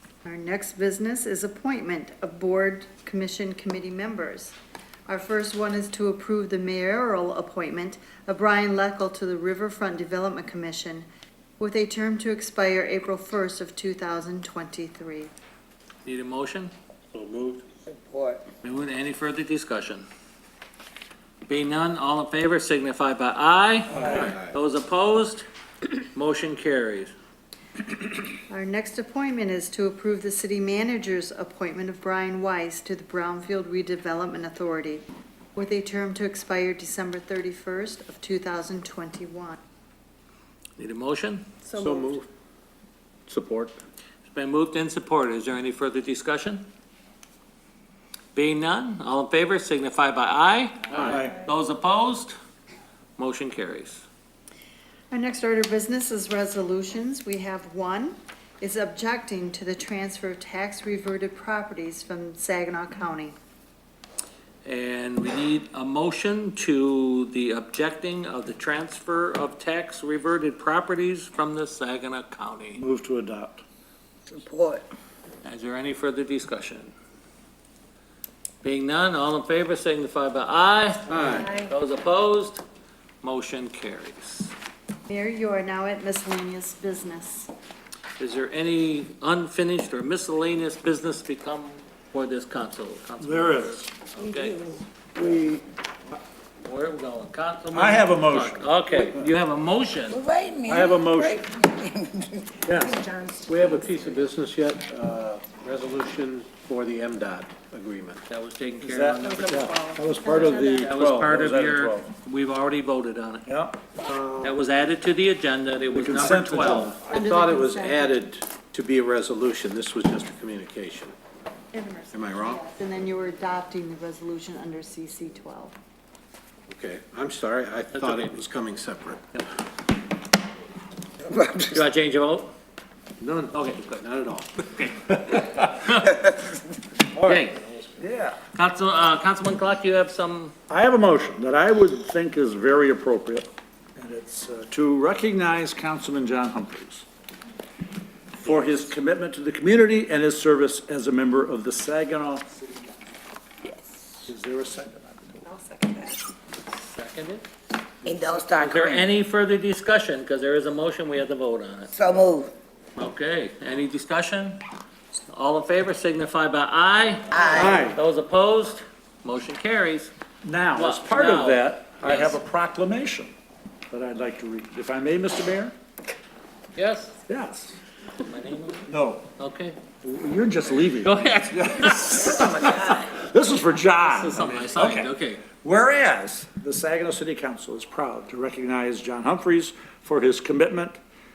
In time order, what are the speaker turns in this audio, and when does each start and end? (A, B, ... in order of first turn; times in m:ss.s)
0:00.2-0:04.6 A
0:05.1-0:11.0 A
0:11.6-0:15.3 A
0:16.0-0:16.7 B
0:17.1-0:17.6 C
0:17.8-0:18.4 D
0:18.6-0:20.0 B
0:21.5-0:27.1 B
0:24.0-0:24.3 C
0:28.5-0:35.0 A
0:35.6-0:39.6 A
0:40.8-0:41.4 B
0:41.6-0:42.1 A
0:41.7-0:42.3 C
0:43.3-0:43.8 C
0:44.2-0:46.6 B
0:48.3-0:52.3 B
0:51.0-0:51.3 E
0:53.2-0:54.0 B
0:55.1-1:03.3 A
1:04.6-1:12.8 B
1:12.8-1:13.6 E
1:14.3-1:14.9 D
1:15.4-1:16.9 B
1:18.6-1:22.6 B
1:21.1-1:21.5 C
1:21.3-1:21.7 A
1:23.2-1:24.5 B
1:25.1-1:27.5 A
1:28.2-1:34.7 B
1:33.2-1:33.9 E
1:34.4-1:34.8 D
1:35.1-1:35.6 C
1:36.6-1:40.2 B
1:37.7-1:38.6 E
1:40.1-1:44.1 D
1:40.7-1:41.5 E
1:42.6-1:43.0 E
1:43.5-1:48.2 C
1:48.3-1:49.7 B
1:48.8-1:52.1 E
1:49.6-1:50.8 A
1:50.5-1:53.5 B
1:53.5-1:53.8 E
1:54.1-1:54.5 C
1:54.4-1:56.9 B
1:55.9-1:57.1 E
1:56.8-1:58.2 A
1:57.1-2:01.1 C
2:01.7-2:05.7 A
2:02.1-2:02.6 C
2:06.7-2:09.2 C
2:11.5-2:12.5 B
2:13.2-2:14.6 C
2:13.5-2:14.0 B
2:14.6-2:16.4 B
2:17.2-2:17.6 B
2:18.0-2:18.4 E
2:18.5-2:20.5 B
2:20.7-2:27.0 E
2:28.3-2:32.5 E
2:34.2-2:35.4 E
2:35.9-2:36.2 D
2:36.6-2:37.4 B
2:38.0-2:39.1 D
2:38.5-2:41.9 B
2:41.9-2:42.5 D
2:43.0-2:44.6 B
2:45.3-2:50.1 B
2:47.3-2:47.7 D
2:47.5-2:48.0 E
2:50.4-2:53.3 E
2:50.7-2:52.4 B
2:53.9-2:55.7 E
2:56.7-2:57.2 B
2:57.3-2:57.8 E
2:58.2-2:59.8 B
2:58.9-2:59.3 E
3:00.0-3:11.0 E
3:01.0-3:02.5 B
3:04.0-3:05.4 B